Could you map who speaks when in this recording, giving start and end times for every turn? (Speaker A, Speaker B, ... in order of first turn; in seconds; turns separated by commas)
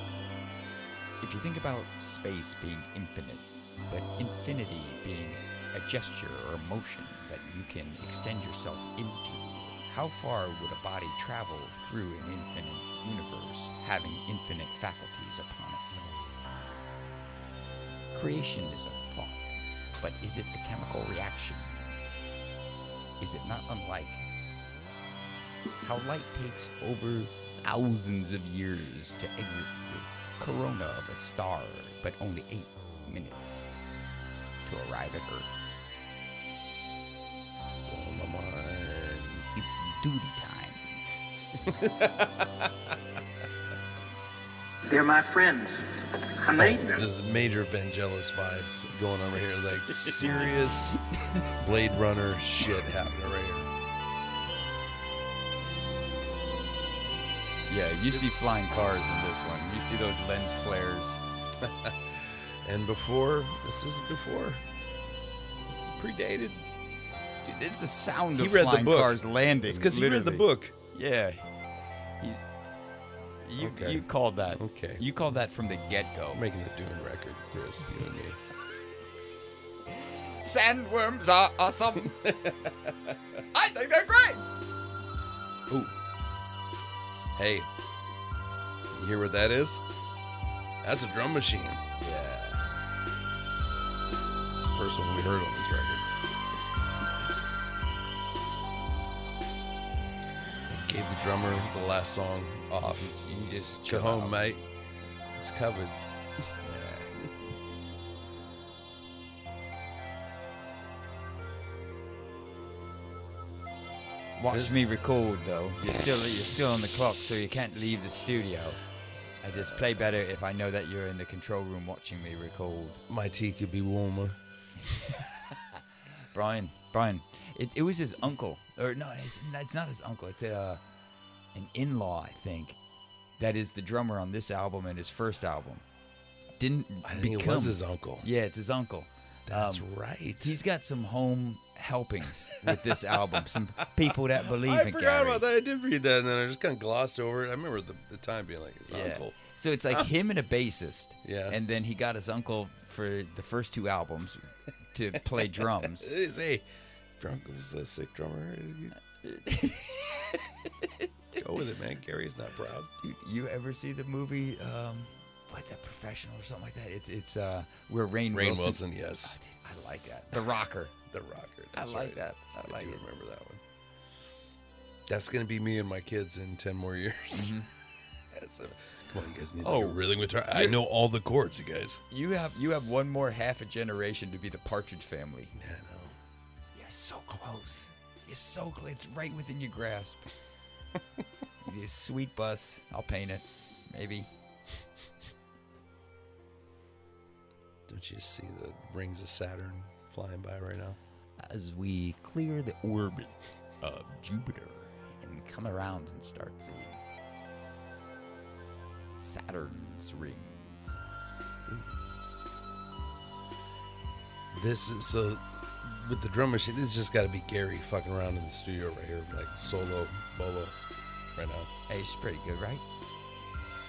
Speaker A: 1.2-16.1, Speaker A: 18.1-21.8, Speaker A: 23.2-24.3, Speaker A: 25.8-33.9, Speaker A: 34.6-35.5, Speaker B: 37.9-39.5, Speaker A: 39.5-40.8, Speaker B: 41.6-42.7, Speaker C: 44.9-47.0, Speaker B: 46.5-51.0, Speaker B: 51.6-53.7, Speaker A: 57.7-61.2, Speaker B: 61.6-64.6, Speaker B: 65.7-66.7, Speaker A: 67.4-71.5, Speaker B: 68.4-70.7, Speaker A: 72.2-72.5, Speaker A: 73.4-76.4, Speaker B: 73.6-75.0, Speaker B: 76.3-78.4, Speaker A: 80.0-82.2, Speaker B: 82.0-83.2, Speaker A: 83.5-84.4, Speaker B: 85.7-85.9, Speaker B: 87.3-87.7, Speaker B: 88.9-89.8, Speaker B: 90.8-91.8, Speaker A: 92.0-92.7, Speaker B: 94.5-96.0, Speaker B: 100.7-104.6, Speaker A: 102.8-104.4, Speaker B: 105.3-106.0, Speaker A: 106.6-107.2, Speaker A: 114.4-118.8, Speaker B: 114.5-114.8, Speaker A: 119.4-123.0, Speaker B: 119.5-120.1, Speaker B: 123.1-124.4, Speaker A: 124.9-130.8, Speaker A: 131.5-132.8, Speaker A: 133.4-135.8, Speaker A: 136.6-139.8, Speaker B: 137.0-138.2, Speaker B: 139.5-140.5, Speaker A: 140.4-145.4, Speaker B: 142.6-149.3, Speaker A: 148.9-156.1, Speaker B: 151.2-151.6, Speaker B: 155.4-156.6, Speaker B: 157.2-158.9, Speaker A: 159.2-161.1, Speaker B: 161.3-162.9, Speaker A: 163.0-170.9, Speaker B: 168.3-169.4, Speaker B: 171.1-173.6, Speaker A: 171.7-173.0, Speaker B: 175.1-177.6, Speaker A: 177.3-177.7, Speaker B: 178.3-182.0, Speaker A: 179.6-180.8, Speaker A: 182.1-185.5, Speaker B: 185.5-186.2, Speaker A: 186.7-190.3, Speaker A: 191.6-194.3, Speaker B: 197.9-201.0, Speaker A: 201.4-207.0, Speaker A: 209.2-211.0, Speaker B: 214.5-220.8, Speaker B: 221.3-221.7, Speaker A: 221.9-222.8